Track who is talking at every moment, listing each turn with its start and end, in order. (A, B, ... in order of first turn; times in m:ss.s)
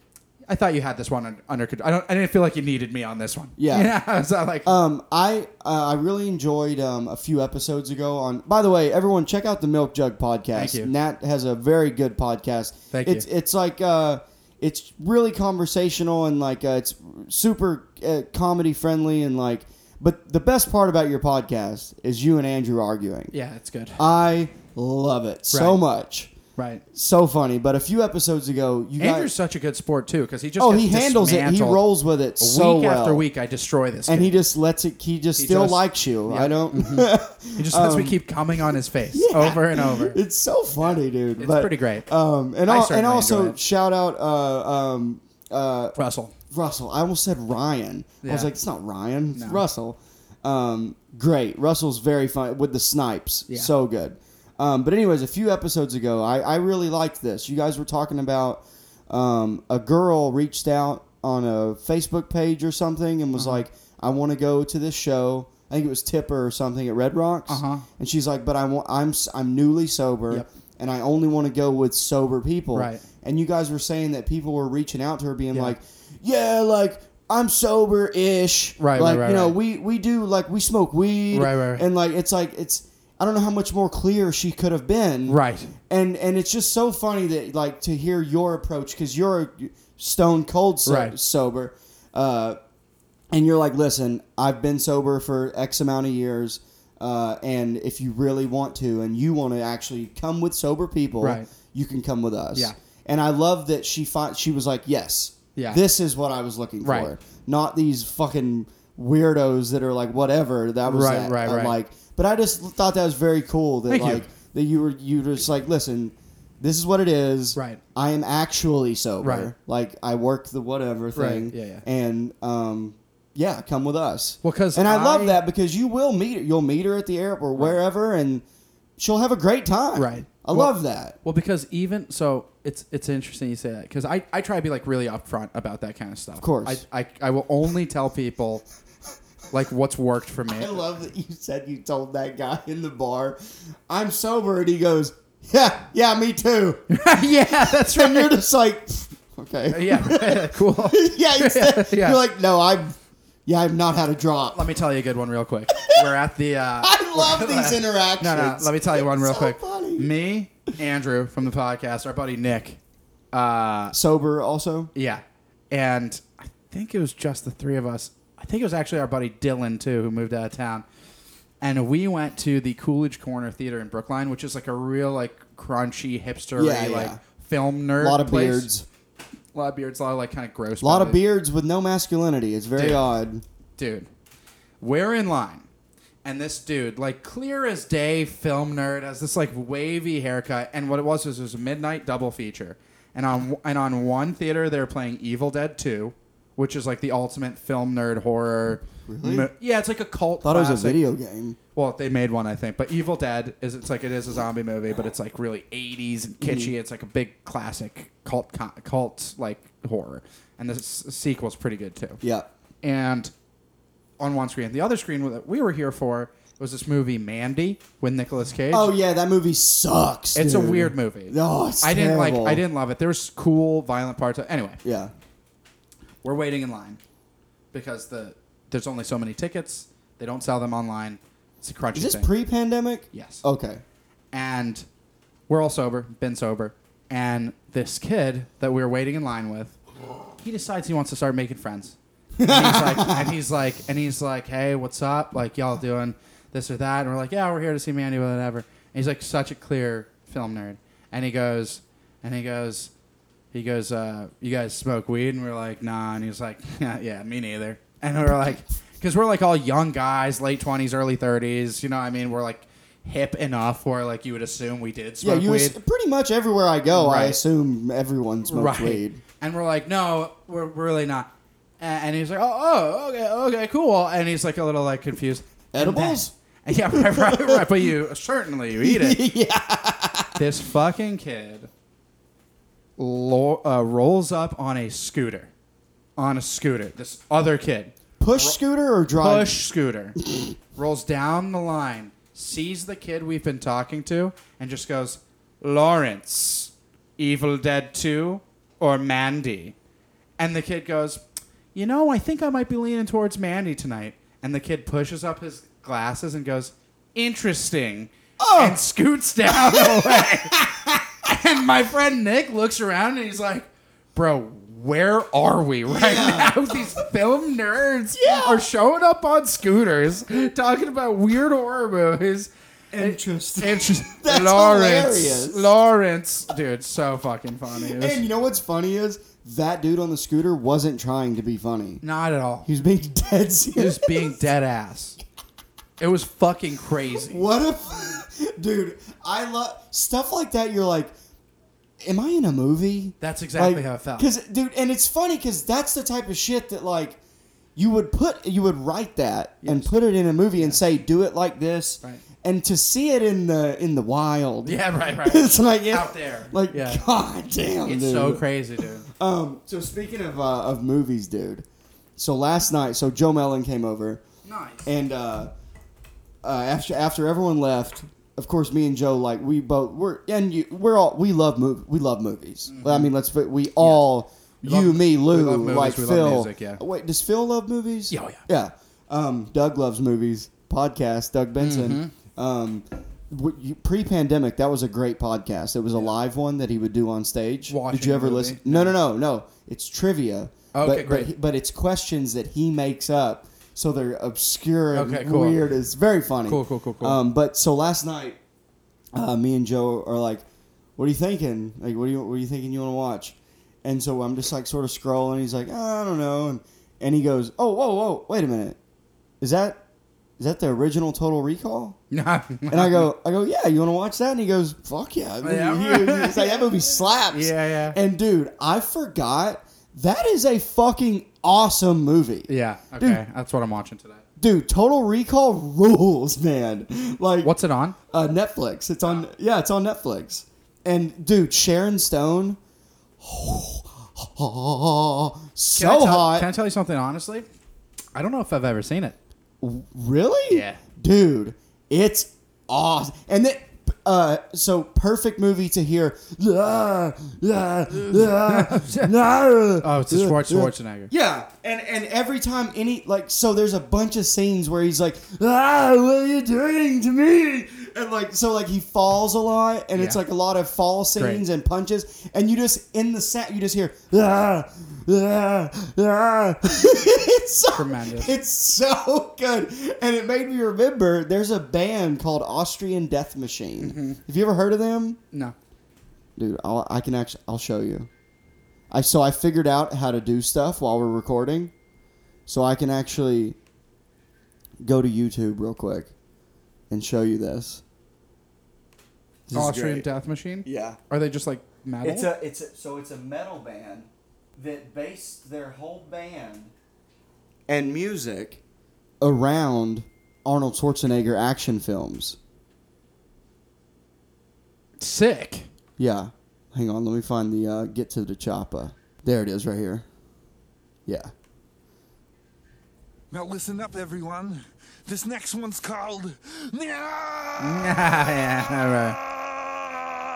0:00.5-0:04.7 A
0:03.6-0:03.9 B
0:04.6-0:23.3 B
0:10.5-0:10.9 A
0:12.9-0:13.2 A
0:23.3-0:24.0 A
0:24.0-0:26.3 B
0:25.5-0:25.8 A
0:26.6-0:26.8 A
0:26.9-0:29.3 B
0:29.0-0:31.8 A
0:30.6-0:33.2 B
0:32.4-0:34.3 A
0:34.1-0:38.2 B
0:35.4-0:40.2 A
0:39.1-0:45.9 B
0:41.4-0:42.1 A
0:42.6-0:43.6 A
0:46.0-0:46.3 A
0:46.5-1:32.6 B
0:48.2-0:48.5 A
0:49.3-0:49.6 A
1:03.4-1:03.6 A
1:07.5-1:07.8 A
1:12.7-1:13.0 A
1:18.8-1:19.6 A
1:21.3-1:21.9 A
1:25.3-1:25.7 A
1:30.8-1:31.2 A
1:33.3-2:08.4 B
1:41.2-1:41.5 A
1:45.6-1:45.8 A
1:46.8-1:47.1 A
1:50.8-1:51.8 A
1:53.9-1:54.2 A
1:57.5-1:57.8 A
1:59.2-1:59.5 A
2:01.2-2:01.8 A
2:04.4-2:05.4 A
2:09.0-2:11.2 B
2:10.0-2:18.6 A
2:16.4-2:16.8 B
2:19.5-2:20.8 A
2:20.6-2:23.4 B
2:23.9-2:26.8 B
2:26.9-2:28.4 A
2:27.7-2:34.7 B
2:29.7-2:32.2 A
2:34.5-2:42.8 A
2:35.8-2:36.0 B
2:36.8-2:40.1 B
2:43.3-2:44.0 A
2:43.9-2:44.9 B
2:44.9-2:50.8 A
2:51.6-2:58.7 A
2:56.6-2:57.2 B
2:58.0-2:58.8 B
2:59.5-3:01.2 A
3:00.8-3:03.4 B
3:02.8-3:03.0 A
3:03.8-3:04.1 A
3:04.8-3:05.6 A
3:06.2-3:21.0 A
3:19.0-3:19.5 B
3:20.4-3:21.6 B
3:21.7-3:32.2 A
3:26.4-3:26.7 B
3:32.2-3:32.5 B
3:32.8-3:33.3 A
3:34.2-3:38.9 A
3:38.7-3:42.6 B
3:40.3-3:44.8 A
3:44.8-3:45.1 B
3:46.2-3:47.0 A
3:47.7-3:52.3 A
3:51.9-3:53.8 B
3:53.1-3:53.4 A
3:54.3-3:54.8 A
3:55.5-3:59.8 A
4:00.4-4:12.9 A
4:02.4-4:03.3 B
4:13.5-4:25.8 A
4:25.2-4:29.2 B
4:26.9-4:27.4 A
4:28.4-4:31.3 A
4:31.8-4:39.2 A
4:35.7-4:36.3 B
4:36.8-4:37.8 B
4:38.8-4:40.4 B
4:40.4-4:41.7 A
4:43.0-4:45.5 A
4:46.2-4:48.6 A
4:48.2-4:49.6 B
4:49.2-4:50.2 A
4:50.7-4:59.7 A
5:00.4-5:01.2 A
5:01.7-5:10.6 A
5:08.4-5:08.8 B
5:09.5-5:11.0 B
5:11.2-5:28.2 A
5:15.9-5:16.9 B
5:18.1-5:18.6 B
5:22.9-5:25.7 B
5:27.8-5:32.0 B
5:32.0-5:32.7 A
5:32.6-5:34.4 B
5:33.7-5:35.2 A
5:36.0-5:37.4 A
5:37.3-5:41.1 B
5:42.0-5:47.2 B
5:43.2-5:44.3 A
5:47.8-5:58.5 B
5:49.6-5:49.9 A
5:54.6-5:57.0 A
5:57.8-5:59.1 A
5:59.0-6:01.6 B
6:02.2-6:04.2 B
6:04.4-6:04.8 A
6:04.8-6:05.5 B
6:06.4-6:38.4 B
6:12.7-6:13.1 A
6:13.8-6:14.1 A
6:14.6-6:16.8 A
6:18.1-6:18.4 A
6:21.6-6:22.1 A
6:27.7-6:29.0 A
6:30.7-6:31.3 A
6:34.9-6:35.6 A
6:36.4-6:37.2 A
6:39.1-6:40.4 B
6:41.0-6:48.8 B
6:49.4-6:49.8 B
6:50.4-6:52.0 B
6:52.1-6:53.1 A
6:52.7-7:03.2 B
6:55.4-6:58.0 A
7:02.5-7:04.2 A
7:04.4-7:07.5 B
7:07.4-7:08.0 A
7:08.1-7:12.6 B
7:13.2-7:16.5 B
7:15.7-7:17.4 A
7:18.1-7:19.2 A
7:19.6-7:55.2 B
7:20.5-7:20.8 A
7:27.9-7:29.1 A
7:29.8-7:31.1 A
7:39.9-7:40.2 A
7:41.2-7:41.4 A
7:47.7-7:48.3 A
7:53.8-7:54.2 A
7:56.4-7:58.1 B
7:58.9-8:01.7 B
8:02.5-8:03.6 B
8:04.8-8:06.1 B
8:06.9-8:07.8 B
8:09.5-8:10.1 B
8:09.5-8:12.3 A
8:10.6-8:11.0 B
8:12.0-8:16.7 B
8:17.7-8:18.6 B
8:19.2-8:22.4 B
8:25.0-8:25.7 A
8:26.0-8:30.0 B
8:31.0-8:31.3 B
8:33.3-8:38.3 C
8:37.6-8:39.2 A
8:39.3-8:40.1 C